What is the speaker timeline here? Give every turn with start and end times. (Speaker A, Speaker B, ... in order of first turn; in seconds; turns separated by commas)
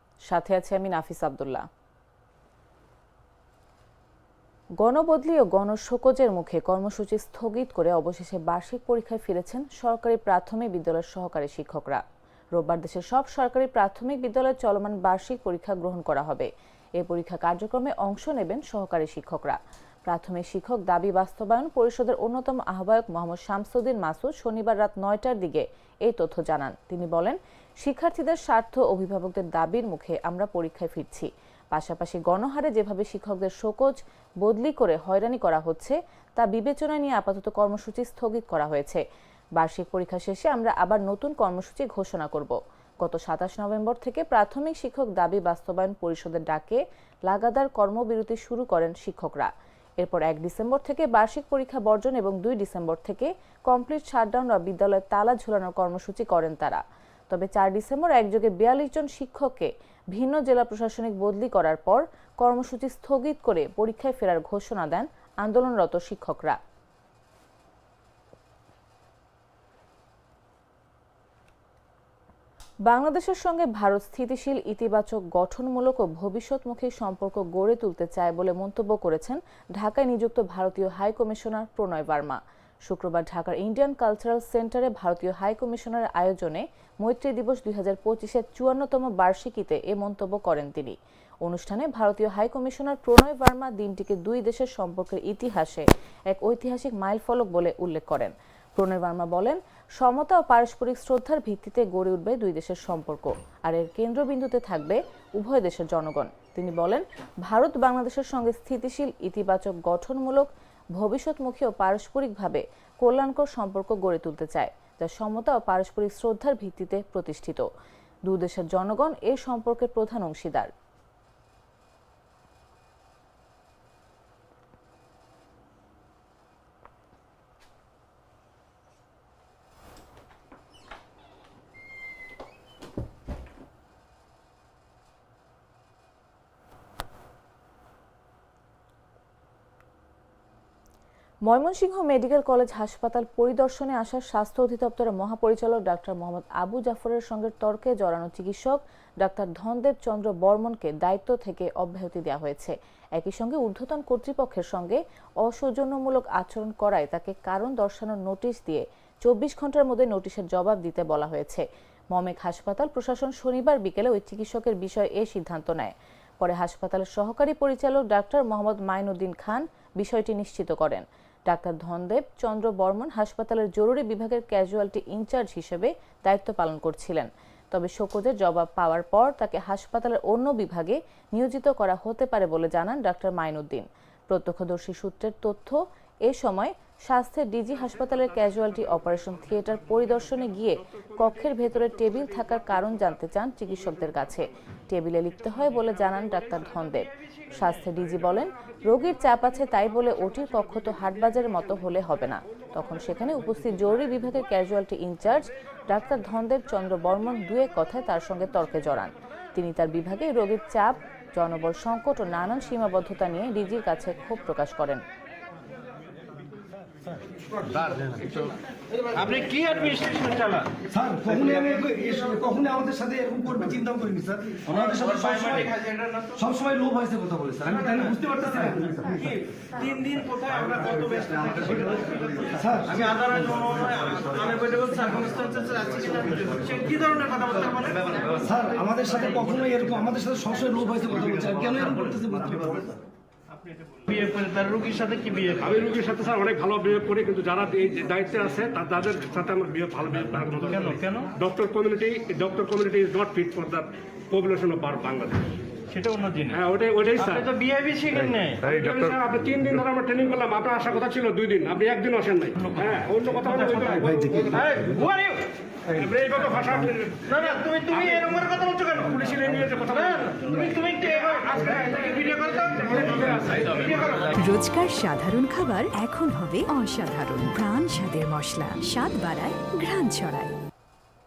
Speaker A: 0.3-1.7, Speaker A: 4.8-12.0, Speaker A: 12.5-39.0, Speaker A: 39.6-66.6, Speaker A: 72.9-117.7, Speaker A: 118.3-120.7, Speaker A: 141.5-215.0, Speaker B: 219.1-220.8, Speaker C: 220.8-229.3, Speaker B: 225.2-226.3, Speaker B: 229.2-238.3, Speaker C: 232.5-233.0, Speaker C: 238.2-243.0, Speaker B: 244.0-245.7, Speaker D: 245.6-255.5, Speaker B: 250.9-251.3, Speaker B: 255.9-256.5, Speaker D: 256.5-257.6, Speaker B: 257.4-258.7, Speaker D: 258.6-264.8, Speaker B: 264.6-265.5, Speaker D: 265.9-267.3, Speaker B: 267.3-269.2, Speaker D: 269.1-270.5, Speaker B: 270.0-274.4, Speaker D: 271.3-271.7, Speaker D: 272.8-273.7, Speaker E: 274.6-280.6